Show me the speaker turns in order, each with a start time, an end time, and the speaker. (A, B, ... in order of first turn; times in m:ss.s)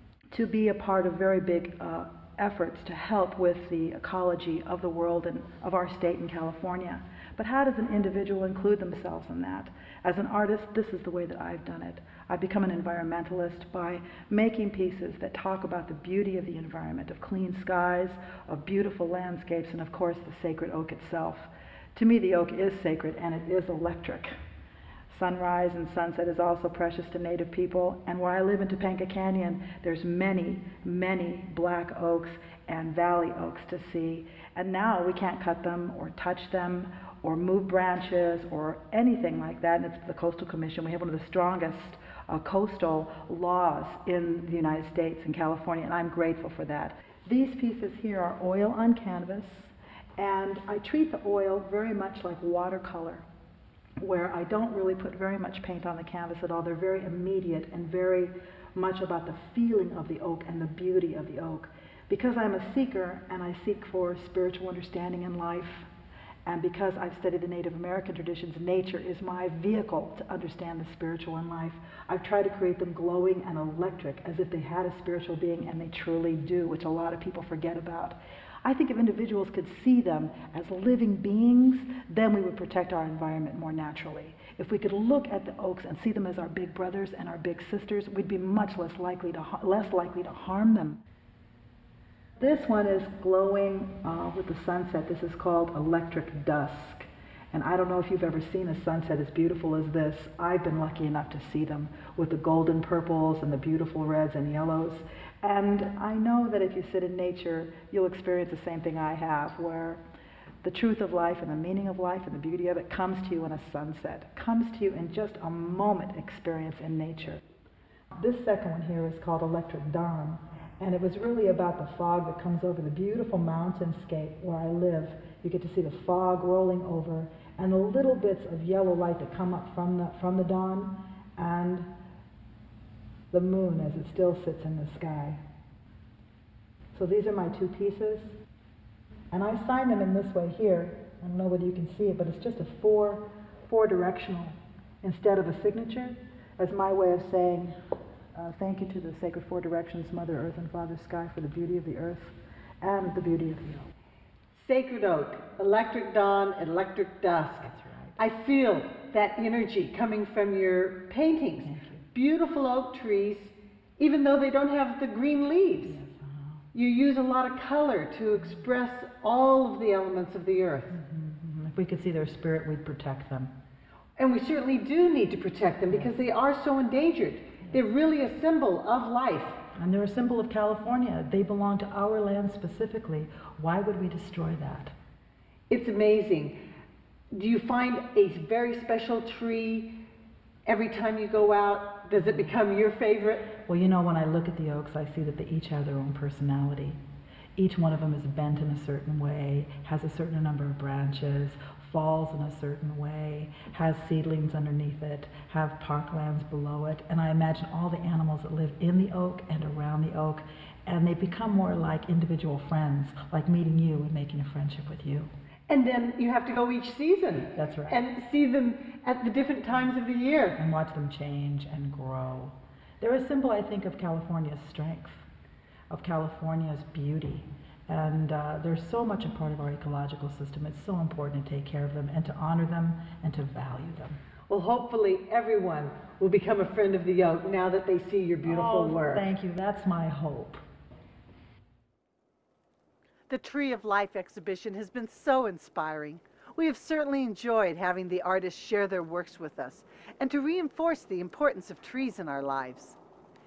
0:00.3-0:24.3 A
0:25.1-0:53.2 A
0:54.0-1:05.9 A
1:06.4-1:31.0 A
1:32.4-1:50.0 A
1:50.6-1:57.4 A
1:58.2-2:11.9 A
2:13.3-2:15.4 A
2:16.9-2:18.3 A
2:19.3-2:27.8 A
2:28.3-2:33.9 A
2:34.5-2:46.0 B
2:37.6-2:38.2 A
2:41.6-2:42.0 A
2:45.8-2:46.6 A
2:46.7-2:50.9 B
2:48.3-2:48.7 A
2:50.9-2:53.5 A
2:54.2-2:59.6 B
2:55.9-2:56.1 A
2:59.8-3:04.9 A
3:05.7-3:06.5 B
3:07.3-3:09.9 B
3:10.6-3:13.5 B
3:12.2-3:12.5 A
3:13.6-3:17.0 A
3:17.6-3:35.3 A
3:35.7-3:40.6 B
3:37.5-3:38.0 A
3:40.6-3:45.2 A
3:45.9-3:54.2 A
3:54.5-3:59.2 B
3:58.4-4:00.6 A
4:03.3-4:13.0 B